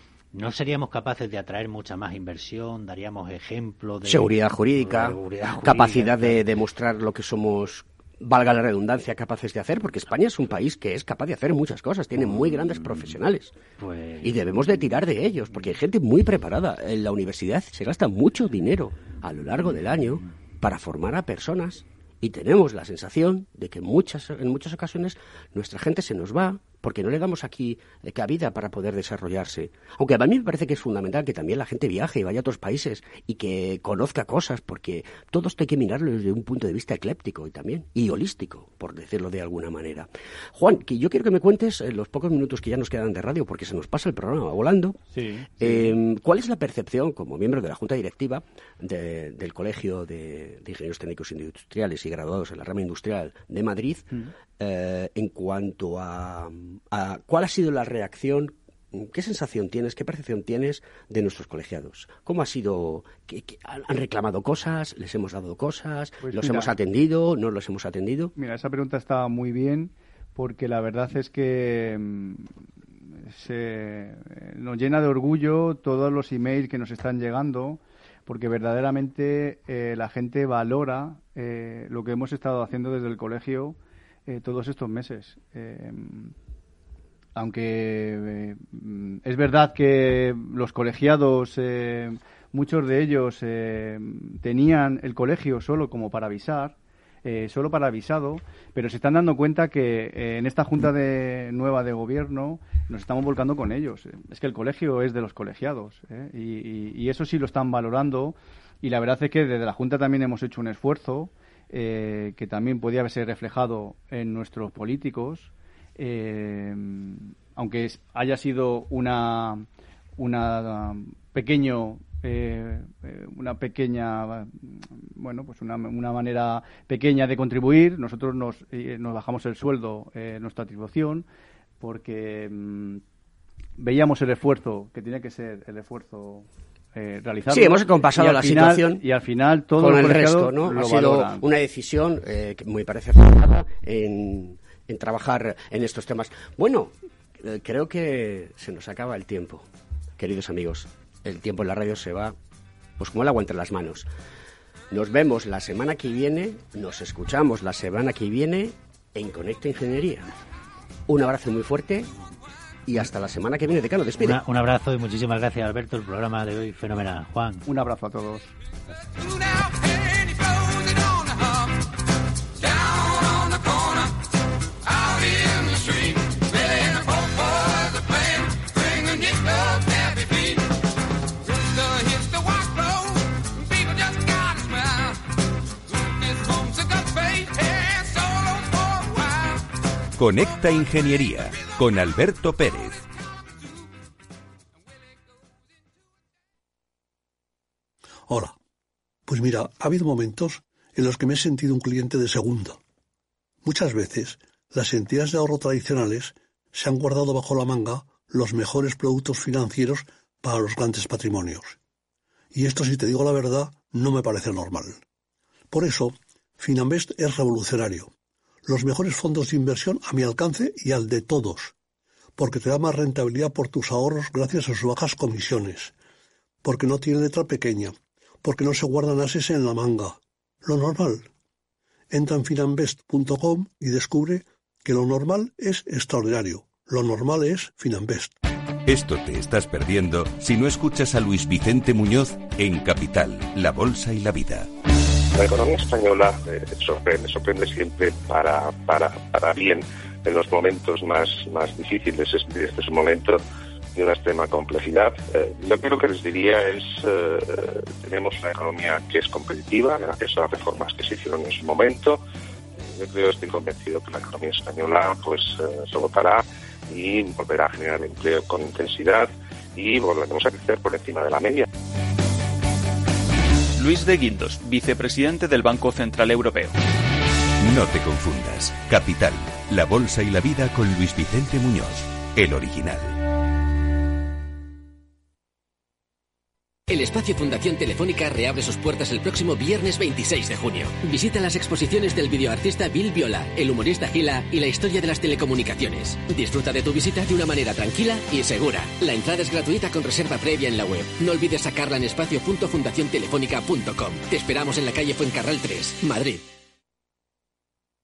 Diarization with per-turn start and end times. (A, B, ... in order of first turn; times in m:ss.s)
0:00.3-0:06.4 A
0:04.0-0:13.5 B
0:12.5-0:12.8 A
0:13.8-0:14.4 A
0:14.2-0:45.0 B
0:45.1-0:45.9 C
0:45.6-1:08.3 B
1:06.2-1:06.7 C
1:08.4-1:12.5 C
1:13.2-1:26.3 C
1:27.4-2:11.3 C
2:11.8-2:13.0 C
2:13.8-2:21.4 C
2:17.5-2:19.0 B
2:19.8-2:29.6 B
2:30.2-2:32.4 B
2:33.0-2:34.1 B
2:34.9-2:40.3 B
2:41.1-2:42.1 B
2:42.9-2:44.4 B
2:44.2-2:47.6 A
2:47.7-2:48.5 C
3:10.2-3:13.0 D
3:18.3-3:18.5 E
3:19.3-3:22.8 E
3:23.6-3:31.8 E
3:32.5-3:35.0 E
3:35.7-3:38.1 E
3:38.7-3:41.7 E
3:42.4-3:45.9 E
3:46.6-3:51.3 E
3:52.1-3:58.3 E
3:58.9-4:04.7 D
4:05.3-4:13.4 F
4:14.0-4:22.2 F
4:22.9-4:31.7 F
4:33.8-4:36.7 G
4:37.6-4:43.2 D
4:46.9-5:06.4 H